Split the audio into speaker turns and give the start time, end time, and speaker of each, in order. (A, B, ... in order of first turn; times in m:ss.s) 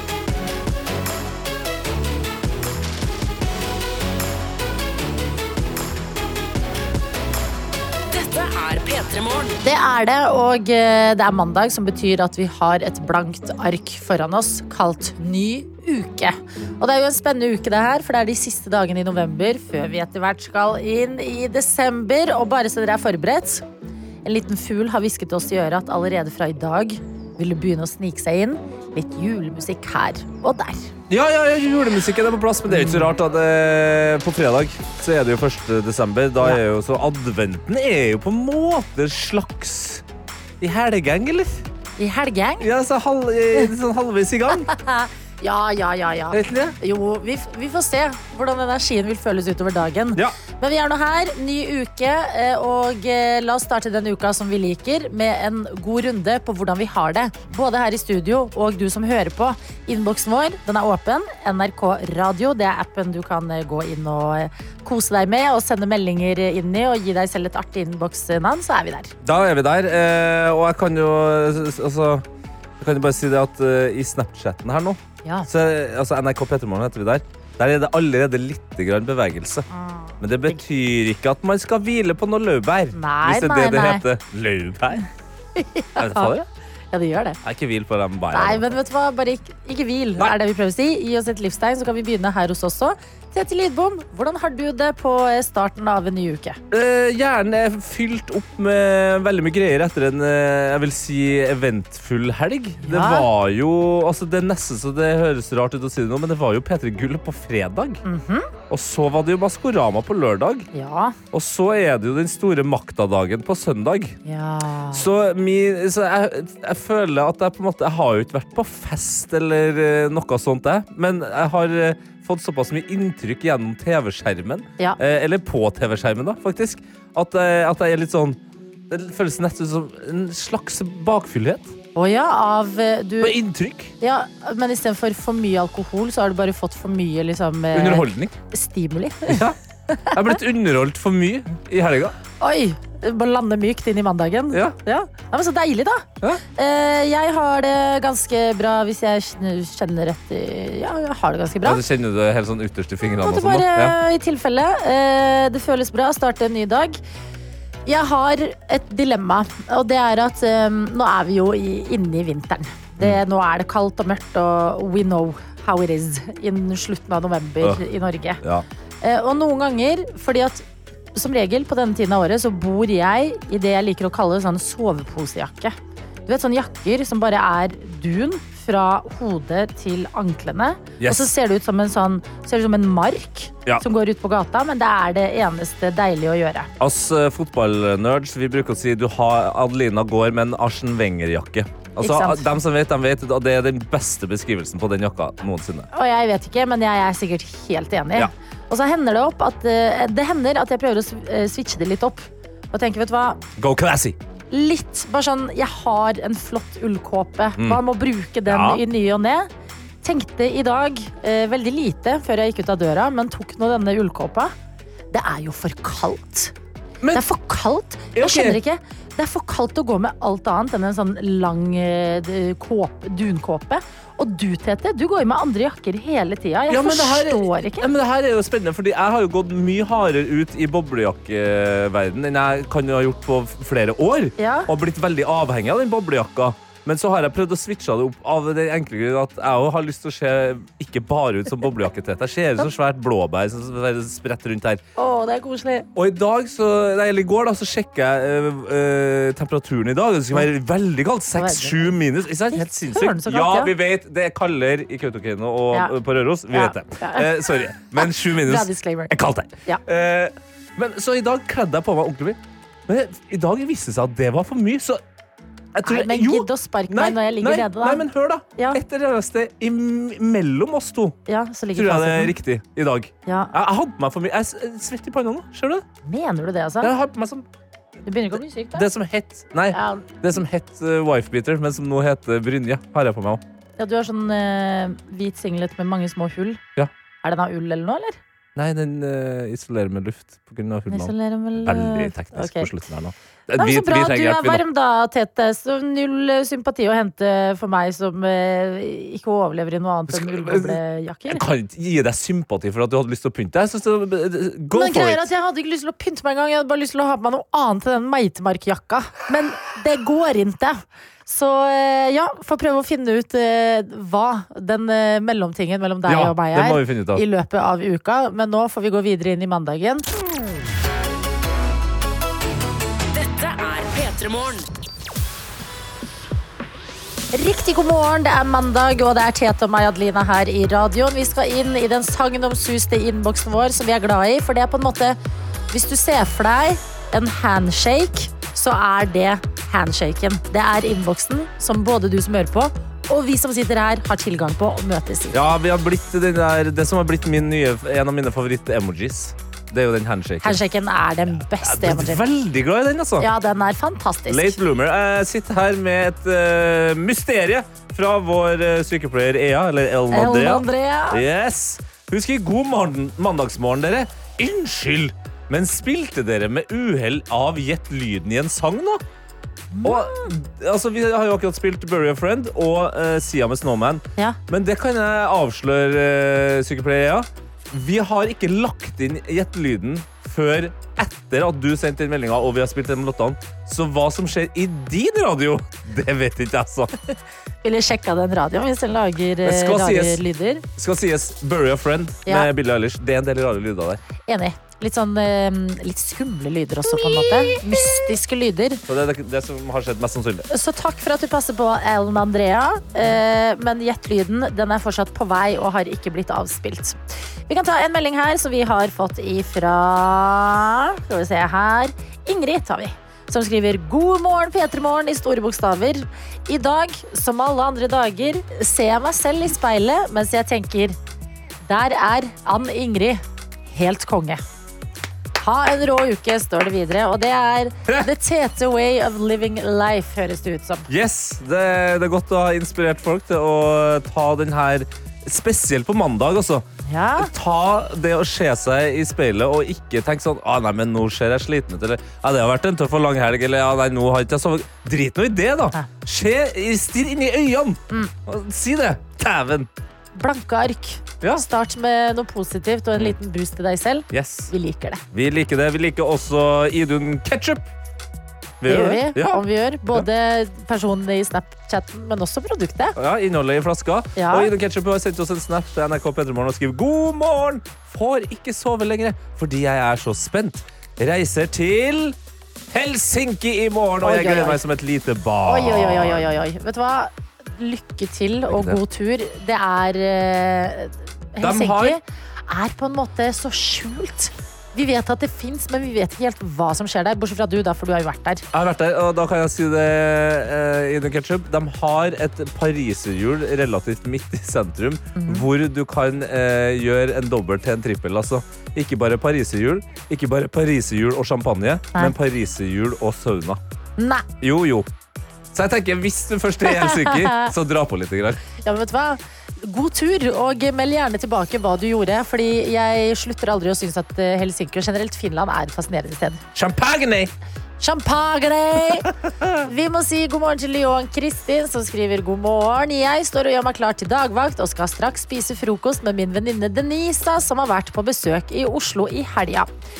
0:08.1-0:09.6 A
0:09.6-0:23.6 B
0:24.2-0:30.9 B
0:31.1-0:40.0 C
0:32.7-0:33.1 B
0:40.6-0:41.6 C
0:42.0-0:42.7 B
0:42.6-0:44.7 C
0:44.5-1:09.1 B
0:46.3-0:46.7 C
1:09.2-1:12.2 C
1:12.8-1:19.6 C
1:15.2-1:15.5 B
1:19.7-1:20.6 B
1:20.2-1:25.0 C
1:22.9-1:24.0 B
1:25.6-1:26.4 B
1:26.0-1:26.4 C
1:26.9-1:27.4 B
1:27.4-1:28.8 C
1:28.3-1:36.6 B
1:36.7-1:48.0 C
1:42.8-1:43.3 B
1:48.0-1:48.5 B
1:48.7-1:50.7 C
1:50.7-1:51.2 B
1:51.3-1:54.2 C
1:54.2-1:55.0 B
1:54.9-2:11.7 C
2:11.9-2:13.4 B
2:13.2-2:13.9 C
2:14.0-2:20.4 B
2:17.7-2:18.4 C
2:19.3-2:19.6 C
2:20.1-2:22.1 C
2:22.4-2:31.8 B
2:24.5-2:24.8 C
2:31.6-2:34.0 C
2:33.2-2:37.0 B
2:37.8-2:48.4 B
2:49.0-2:50.6 B
2:51.1-2:55.7 B
2:56.2-3:06.7 B
3:01.0-3:01.3 C
3:06.8-3:15.9 C
3:12.0-3:12.5 B
3:15.9-3:23.4 B
3:23.6-3:24.2 C
3:24.5-3:29.5 B
3:27.6-3:27.8 C
3:28.4-3:28.8 C
3:30.0-3:34.5 B
3:35.1-3:36.5 B
3:37.1-3:47.9 B
3:38.1-3:38.6 C
3:46.7-4:04.8 C
3:54.4-3:54.7 B
4:05.0-4:05.9 B
4:06.0-4:25.0 C
4:11.4-4:11.9 B
4:12.5-4:13.7 B
4:16.5-4:17.3 B
4:18.0-4:19.1 B
4:25.7-4:31.2 C
4:25.8-4:28.0 B
4:31.3-4:32.3 B
4:31.8-4:35.8 C
4:33.2-4:33.5 B
4:36.0-4:36.9 B
4:36.8-4:37.4 C
4:38.1-4:38.8 B
4:38.3-4:43.4 C
4:39.7-4:40.1 B
4:43.8-4:46.6 B
4:47.2-4:48.2 B
4:48.6-4:54.6 C
4:50.9-4:52.7 B
4:53.5-5:01.4 B
5:00.1-5:05.3 C
5:04.7-5:20.0 B
5:16.0-5:17.2 C
5:23.1-5:24.6 A
5:27.3-5:35.2 B
5:35.7-5:45.4 B
5:45.3-5:50.6 C
5:50.4-5:52.2 B
5:51.6-5:53.3 C
5:53.2-5:54.6 B
5:54.3-6:09.0 C
6:00.1-6:01.2 B
6:09.7-6:10.3 B
6:09.8-6:26.9 C
6:27.6-6:30.6 B
6:29.4-6:30.2 C
6:30.8-6:34.0 C
6:34.3-6:38.8 B
6:37.0-6:37.6 C
6:38.9-6:40.5 C
6:40.5-7:01.0 B
7:01.6-7:04.4 B
7:05.4-7:10.9 B
7:10.9-7:16.6 C
7:16.8-7:17.3 B
7:17.2-7:29.7 C
7:30.1-7:35.0 B
7:34.1-7:34.5 C
7:35.1-7:37.7 C
7:38.6-7:39.4 C
7:38.6-7:42.9 B
7:43.0-7:52.2 C
7:44.2-7:44.5 B
7:52.7-7:56.3 C
7:54.0-7:54.6 B
7:55.4-8:08.4 B
7:58.5-7:58.8 C
8:01.4-8:02.0 C
8:08.5-8:23.6 C
8:15.1-8:15.4 B
8:24.0-8:24.2 B
8:24.4-8:24.9 C
8:25.5-8:28.4 C
8:26.7-8:27.5 B
8:28.6-8:36.4 B
8:36.5-8:37.3 C
8:37.8-8:39.1 B
8:39.0-8:39.6 C
8:39.6-8:49.7 B